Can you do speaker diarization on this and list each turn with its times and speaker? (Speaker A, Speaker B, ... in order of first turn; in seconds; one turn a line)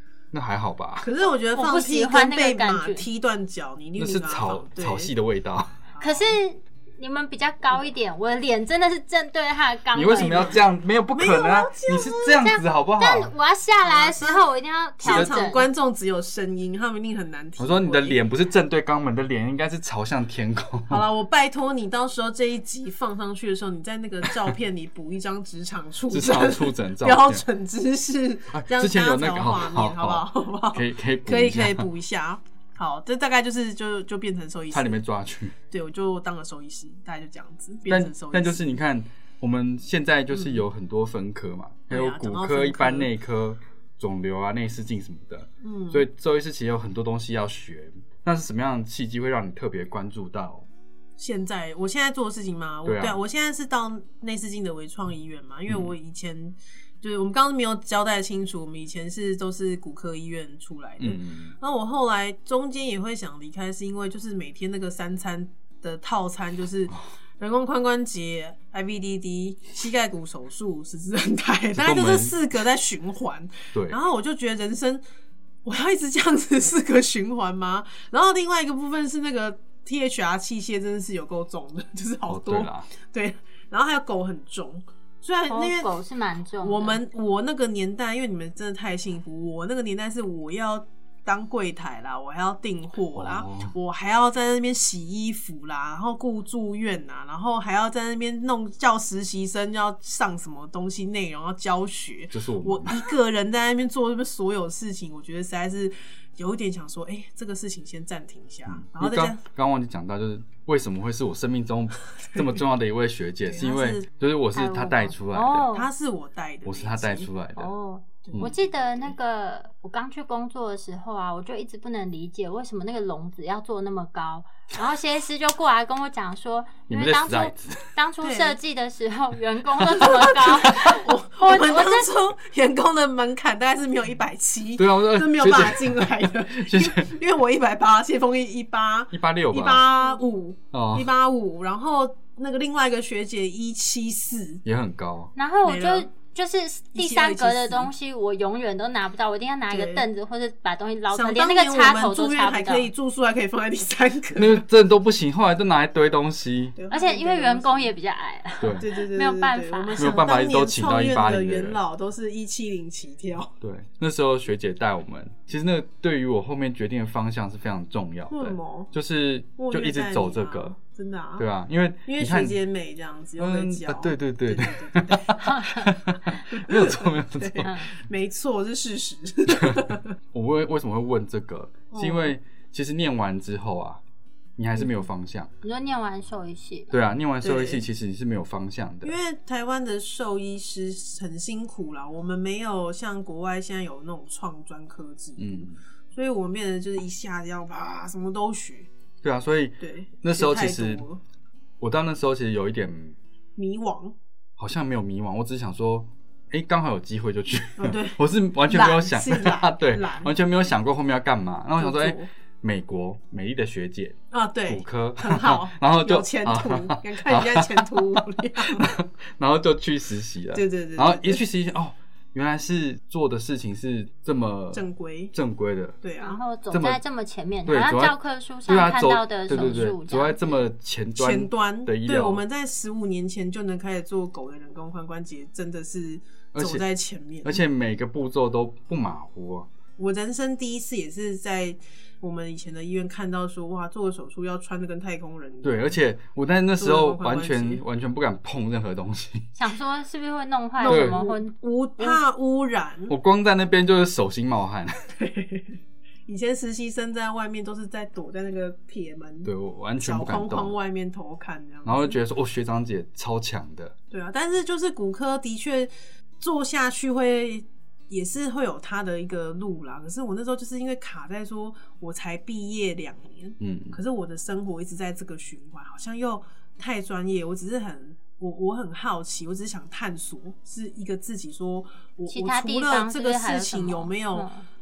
Speaker A: 0.3-1.1
Speaker B: 1.0-5.1
Speaker C: 1.5-3.0
Speaker A: 4.0-5.8
Speaker B: 5.9-6.4
Speaker C: 6.0-10.6
Speaker A: 9.9-13.3
Speaker B: 10.1-12.5
Speaker C: 12.4-15.7
Speaker B: 13.8-14.4
Speaker B: 15.0-18.2
Speaker A: 15.0-15.3
Speaker A: 17.6-21.0
Speaker B: 20.9-35.0
Speaker A: 26.1-27.4
Speaker A: 28.5-31.9
Speaker A: 34.7-35.5
Speaker B: 35.7-38.7
Speaker A: 37.9-50.7
Speaker B: 40.3-40.6
Speaker B: 41.9-43.1
Speaker B: 45.6-46.0
Speaker B: 51.2-75.0
Speaker A: 52.9-53.2
Speaker A: 55.7-56.0
Speaker A: 61.0-61.5
Speaker A: 71.7-72.3
Speaker A: 73.7-74.0
Speaker B: 75.7-86.0
Speaker A: 82.3-82.9
Speaker C: 85.5-87.0
Speaker B: 86.6-109.4
Speaker A: 93.2-93.7
Speaker A: 102.3-103.1
Speaker A: 108.7-115.7
Speaker B: 113.5-114.1
Speaker C: 114.5-115.9
Speaker B: 115.7-117.3
Speaker A: 116.7-117.7
Speaker C: 117.6-132.1
Speaker B: 118.2-118.5
Speaker A: 126.9-127.9
Speaker B: 128.2-128.6
Speaker B: 129.8-144.6
Speaker A: 134.8-137.1
Speaker A: 139.1-139.8
Speaker A: 140.7-141.1
Speaker A: 144.7-145.3
Speaker C: 145.4-152.9
Speaker B: 145.6-146.1
Speaker B: 146.9-147.9
Speaker B: 149.7-150.1
Speaker B: 151.1-154.6
Speaker A: 154.4-156.8
Speaker B: 156.8-157.9
Speaker C: 156.9-160.1
Speaker A: 158.6-158.9
Speaker B: 158.7-163.5
Speaker A: 160.0-161.8
Speaker A: 163.6-170.7
Speaker B: 168.3-168.9
Speaker B: 169.6-171.5
Speaker A: 171.4-172.6
Speaker B: 172.1-180.2
Speaker A: 173.4-177.7
Speaker C: 175.4-175.8
Speaker C: 177.6-177.9
Speaker A: 179.5-184.0
Speaker B: 181.9-182.3
Speaker A: 184.6-185.5
Speaker C: 185.6-186.9
Speaker A: 186.9-189.2
Speaker B: 187.4-187.8
Speaker B: 189.0-198.9
Speaker A: 195.4-195.8
Speaker A: 199.2-201.0
Speaker B: 199.8-201.2
Speaker A: 201.8-203.2
Speaker B: 203.6-204.2
Speaker A: 204.6-224.8
Speaker B: 207.8-210.3
Speaker B: 211.8-212.3
Speaker B: 214.3-218.9
Speaker B: 220.5-221.4
Speaker B: 224.7-225.3
Speaker A: 225.3-226.0
Speaker B: 226.0-226.4
Speaker C: 226.2-230.6
Speaker A: 226.7-227.0
Speaker A: 227.7-228.2
Speaker A: 228.7-232.4
Speaker B: 231.2-237.6
Speaker A: 236.6-236.9
Speaker A: 237.4-239.7
Speaker B: 240.0-245.9
Speaker A: 245.6-249.5
Speaker B: 246.8-247.8
Speaker C: 249.6-252.2
Speaker B: 250.8-253.2
Speaker A: 250.9-251.2
Speaker A: 253.1-255.0
Speaker B: 255.1-262.2
Speaker A: 259.4-260.8
Speaker A: 261.9-263.9
Speaker B: 264.1-284.5
Speaker A: 273.6-274.0
Speaker C: 282.3-284.6